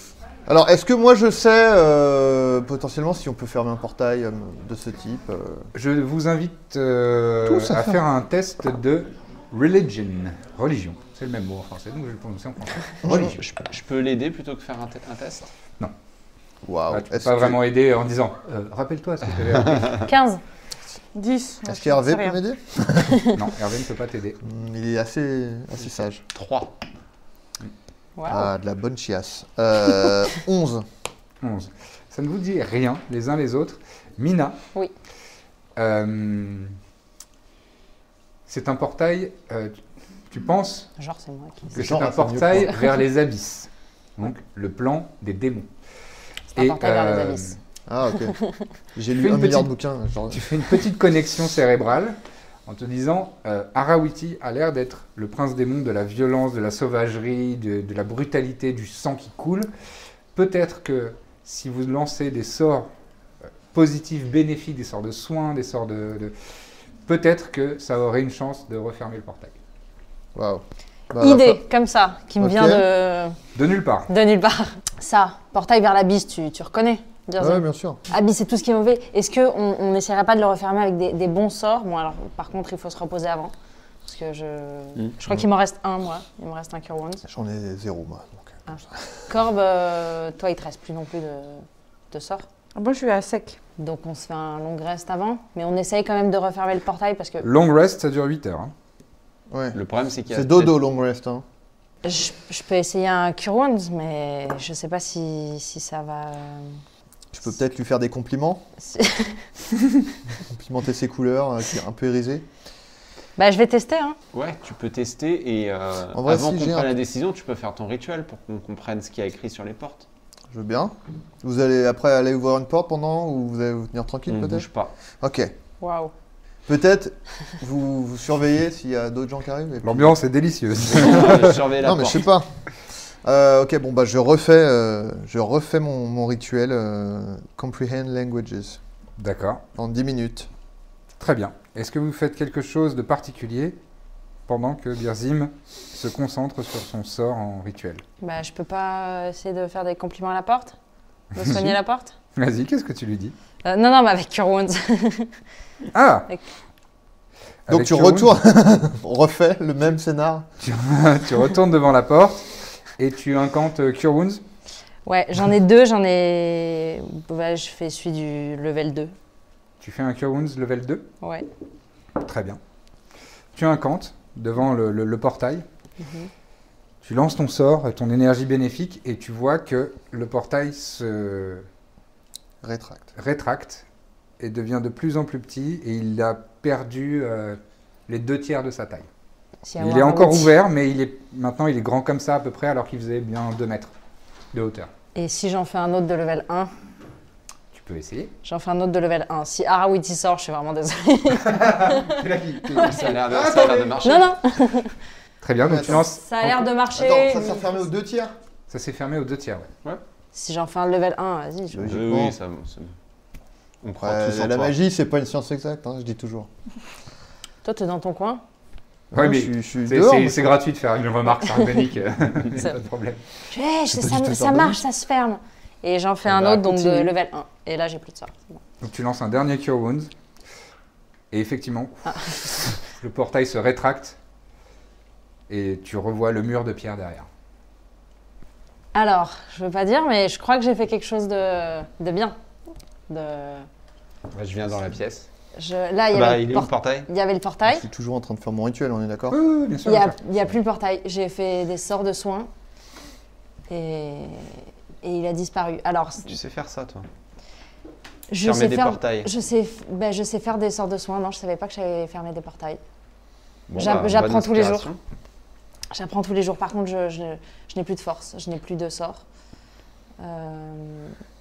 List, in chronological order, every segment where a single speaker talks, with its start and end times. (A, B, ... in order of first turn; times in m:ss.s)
0:00.5-0:05.7 A
0:05.7-0:13.4 B
0:07.4-0:08.0 A
0:13.0-0:13.4 A
0:13.4-0:15.5 C
0:16.6-0:17.6 A
0:16.9-0:20.1 B
0:20.0-0:20.4 D
0:21.2-0:22.4 E
0:21.6-0:23.3 A
0:23.3-0:24.4 B
0:24.4-0:26.2 A
0:26.3-0:26.7 C
0:28.2-0:28.5 D
0:28.3-0:30.8 A
0:31.4-0:34.6 B
0:35.8-0:36.8 B
0:38.5-0:39.8 B
0:40.3-0:40.9 B
0:41.0-0:42.0 D
0:41.7-0:42.7 A
0:41.7-0:45.7 B
0:42.5-0:43.0 D
0:46.5-0:47.6 D
0:46.6-0:47.6 B
0:47.9-0:48.4 A
0:49.0-0:50.7 A
0:49.2-0:49.7 B
0:50.3-0:59.7 B
1:00.4-1:02.9 B
1:03.7-1:06.3 B
1:07.1-1:09.6 B
1:10.4-1:11.6 A
1:11.2-1:13.4 D
1:12.4-1:12.9 A
1:13.6-1:14.1 B
1:14.1-1:23.5 D
1:17.4-1:18.0 A
1:24.0-1:27.2 D
1:27.3-1:29.2 A
1:28.7-1:32.4 D
1:32.8-1:33.6 E
1:33.8-1:37.5 D
1:37.4-1:38.7 B
1:39.5-1:39.8 A
1:39.7-1:40.8 C
1:40.3-1:41.4 A
1:42.0-1:46.8 D
1:47.3-1:48.7 A
1:48.8-1:49.5 D
1:50.5-1:52.5 A
1:53.4-1:54.2 D
1:54.3-2:00.1 C
1:56.1-1:57.0 A
2:00.5-2:04.7 A
2:04.3-2:04.9 C
2:05.2-2:05.5 A
2:05.8-2:06.1 D
2:06.7-2:10.2 A
2:09.8-2:11.6 B
2:10.9-2:12.3 C
2:11.8-2:12.5 A
2:13.2-2:18.8 A
2:19.2-2:19.6 B
2:19.8-2:20.5 A
2:21.2-2:23.8 B
2:24.5-2:28.0 B
2:28.2-2:30.7 D
2:31.3-2:32.1 D
2:31.4-2:31.8 B
2:32.4-2:33.4 B
2:33.6-2:35.3 D
2:35.9-2:36.3 B
2:37.7-2:38.4 B
2:37.7-2:40.5 A
2:40.6-2:42.5 B
2:43.0-2:44.4 B
2:45.0-2:49.1 D
2:49.8-2:51.1 B
2:52.2-2:52.6 B
2:53.6-2:55.6 B
2:56.0-2:56.3 D
2:57.0-3:01.7 B
3:02.6-3:03.1 A
3:03.2-3:03.8 B
3:04.4-3:09.1 B
3:09.6-3:10.5 D
3:09.8-3:13.9 B
3:14.5-3:14.9 B
3:15.2-3:16.7 D
3:17.7-3:18.3 B
3:18.4-3:23.1 D
3:21.4-3:24.0 B
3:22.7-3:24.3 C
3:24.0-3:24.9 D
3:25.4-3:26.7 B
3:25.6-3:26.1 A
3:25.9-3:27.8 D
3:26.9-3:28.4 A
3:28.7-3:29.7 B
3:30.3-3:31.9 D
3:31.7-3:32.4 A
3:31.8-3:32.9 C
3:33.8-3:34.7 C
3:34.0-3:36.5 A
3:37.6-3:38.4 D
3:39.1-3:40.6 A
3:39.1-3:43.2 B
3:43.5-3:48.6 D
3:43.9-3:44.8 A
3:46.3-3:47.1 A
3:48.8-3:50.1 B
3:51.3-3:54.2 B
3:52.1-3:52.6 D
3:55.5-3:57.3 B
3:58.9-4:02.4 D
4:03.1-4:03.7 D
4:04.3-4:05.3 C
4:05.6-4:07.9 D
4:06.1-4:07.1 C
4:07.7-4:09.4 A
4:09.3-4:10.2 B
4:09.8-4:12.5 D
4:13.7-4:16.3 D
4:16.2-4:17.1 C
4:18.3-4:22.8 D
4:18.4-4:19.3 C
4:23.7-4:25.0 C
4:23.8-4:24.9 D
4:25.9-4:29.2 D
4:30.2-4:31.2 D